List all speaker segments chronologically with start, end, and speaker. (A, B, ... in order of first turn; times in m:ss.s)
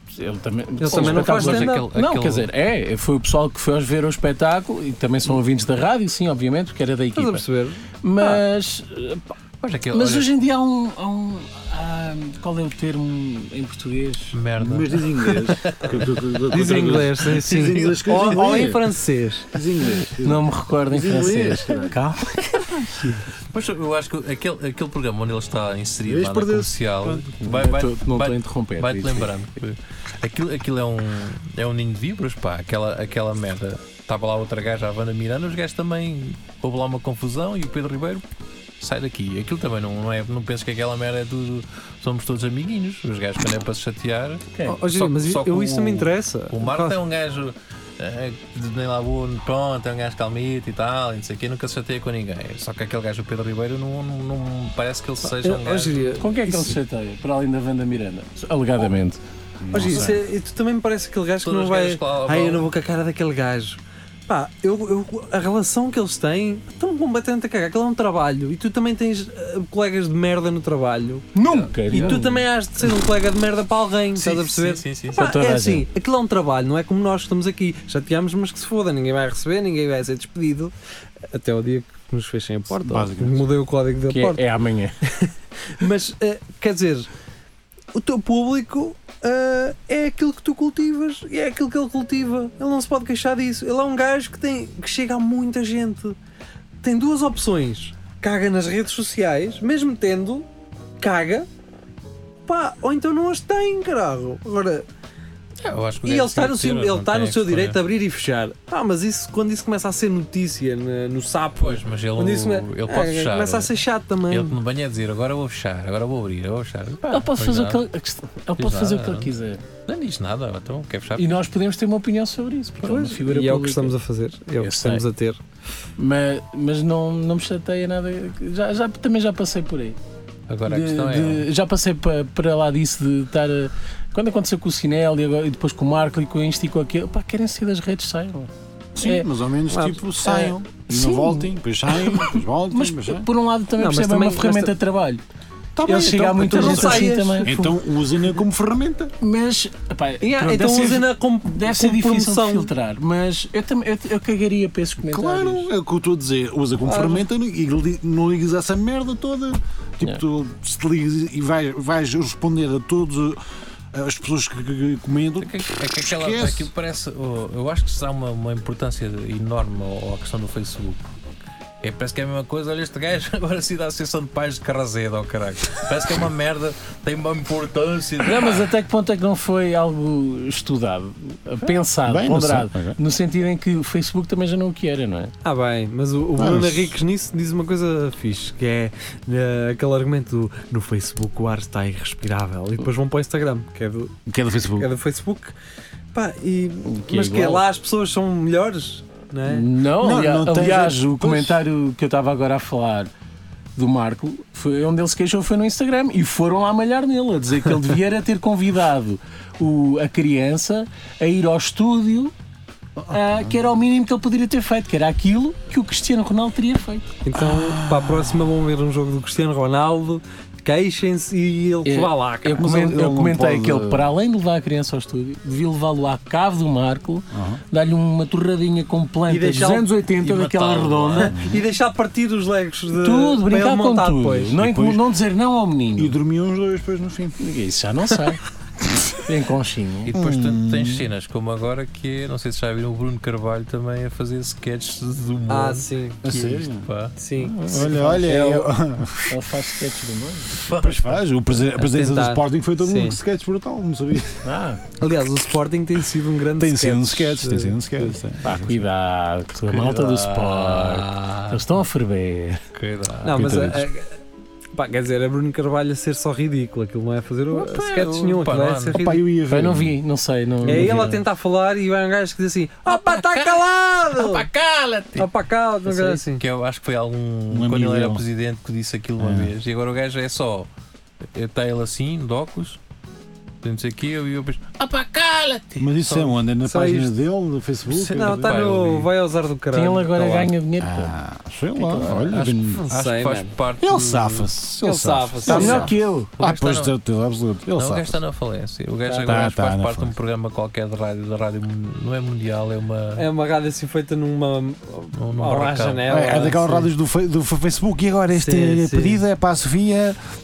0:00.1-0:07.4 A
0:00.8-0:01.9 B
0:00.9-0:02.5 C
0:07.1-0:08.4 B
0:08.0-0:09.3 A
0:09.6-0:10.3 C
0:09.9-0:14.4 A
0:14.3-0:16.0 C
0:14.6-0:18.9 D
0:16.5-0:19.5 B
0:19.5-0:22.0 D
0:20.2-0:23.1 A
0:23.5-0:38.2 C
0:26.1-0:26.6 D
0:27.4-0:29.3 A
0:38.8-0:56.2 C
0:44.6-0:47.0 B
0:55.2-0:56.8 B
0:56.2-0:59.2 A
0:59.6-1:00.2 D
0:59.7-1:11.3 B
1:01.4-1:02.7 C
1:11.3-1:12.4 A
1:11.4-1:12.2 C
1:11.9-1:20.7 B
1:14.2-1:15.2 C
1:15.1-1:15.9 A
1:21.3-1:24.4 B
1:22.8-1:23.5 D
1:24.1-1:25.0 A
1:25.0-1:27.1 B
1:27.9-1:36.2 B
1:36.8-1:40.4 B
1:41.0-1:41.5 B
1:42.5-1:44.9 B
1:45.6-1:47.8 C
1:46.0-1:54.6 B
1:51.6-1:53.8 C
1:54.3-1:57.8 C
1:57.0-1:59.6 A
1:58.6-1:59.3 C
1:59.9-2:01.4 C
2:01.2-2:04.0 A
2:02.8-2:05.4 B
2:04.6-2:05.0 A
2:06.0-2:10.0 A
2:10.5-2:11.5 C
2:10.7-2:18.5 A
2:18.9-2:23.3 D
2:19.7-2:20.5 B
2:20.9-2:21.5 A
2:22.0-2:25.2 A
2:23.8-2:24.7 B
2:25.8-2:29.1 D
2:25.8-2:27.5 A
2:26.4-2:27.8 B
2:29.2-2:35.7 A
2:30.2-2:32.7 B
2:35.0-2:43.4 D
2:36.8-2:37.2 B
2:43.9-2:46.7 D
2:45.4-2:51.1 C
2:51.8-2:58.6 C
2:58.2-3:05.3 A
3:02.0-3:03.0 D
3:05.4-3:14.1 B
3:06.4-3:07.0 D
3:14.2-3:14.9 D
3:14.8-3:15.5 B
3:16.1-3:19.7 B
3:16.9-3:17.6 A
3:19.5-3:23.1 A
3:20.0-3:21.6 D
3:23.8-3:32.3 A
3:33.0-3:33.6 D
3:33.1-3:37.1 A
3:37.2-3:42.6 B
3:37.4-3:38.4 D
3:41.8-3:51.4 A
3:42.6-3:44.1 D
3:47.3-3:47.6 D
3:49.3-3:49.9 B
3:50.2-3:51.4 C
3:51.3-3:51.6 D
3:51.3-3:54.5 B
3:52.9-3:56.2 A
3:54.6-3:55.1 D
3:56.0-3:57.4 D
3:57.4-3:58.4 A
3:59.2-4:00.1 A
4:00.0-4:07.1 C
4:00.1-4:01.1 D
4:05.5-4:06.2 B
4:06.2-4:09.4 D
4:07.2-4:08.7 B
4:07.7-4:08.4 A
4:09.3-4:10.6 A
4:10.6-4:11.2 C
4:10.7-4:14.4 D
4:11.7-4:13.2 B
4:14.4-4:14.8 A
4:15.0-4:18.1 B
4:16.6-4:18.8 D
4:18.4-4:22.6 A
4:19.7-4:21.6 C
4:22.7-4:23.6 C
4:23.2-4:24.2 B
4:23.3-4:23.9 D
4:24.7-4:29.2 B
4:27.5-4:29.0 C
4:28.9-4:30.0 D
4:29.5-4:31.2 A
4:30.6-4:34.4 B
4:30.6-4:31.0 D
4:32.9-4:35.3 C
4:35.2-4:36.4 B
4:36.0-4:40.7 C
4:37.5-4:38.2 D
4:39.2-4:39.5 D
4:41.3-4:42.8 C
4:43.6-4:46.4 C
4:45.8-4:48.6 D
4:46.6-4:47.1 B
4:47.9-4:49.1 C
4:48.1-4:50.5 B
4:49.7-4:51.1 A
4:50.8-4:52.8 D
4:51.8-4:52.3 A
4:52.1-4:54.4 C
4:52.7-4:53.5 B
4:53.8-4:58.2 D
4:54.8-4:55.9 B
4:55.4-4:56.3 A
4:56.4-4:56.9 C
4:57.8-5:03.3 C
4:59.1-4:59.4 A
4:59.2-5:00.1 D
5:03.2-5:06.9 B
5:05.2-5:06.4 C
5:06.1-5:10.2 D
5:08.3-5:09.2 B